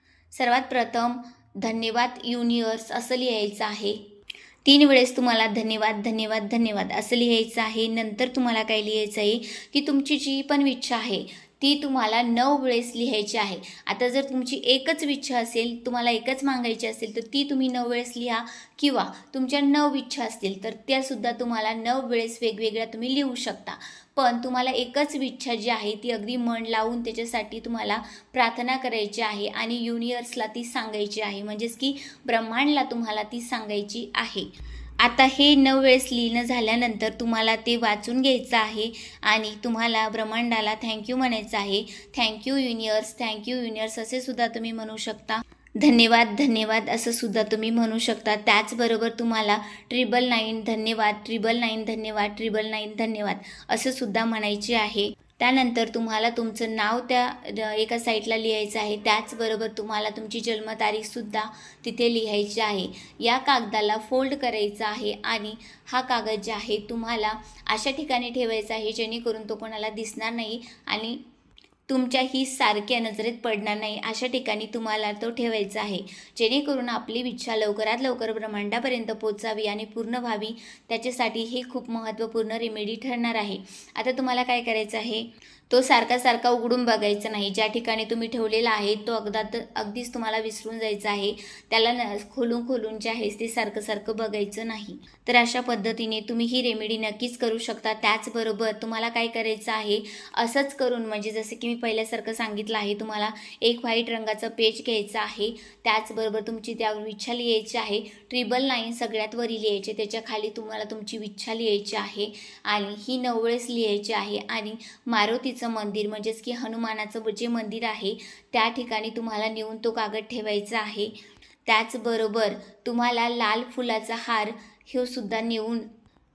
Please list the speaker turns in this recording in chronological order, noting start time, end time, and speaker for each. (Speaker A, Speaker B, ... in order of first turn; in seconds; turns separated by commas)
Speaker A: 0.3-4.0, Speaker A: 4.6-34.5, Speaker A: 35.0-71.2, Speaker A: 71.9-121.1, Speaker A: 121.7-125.9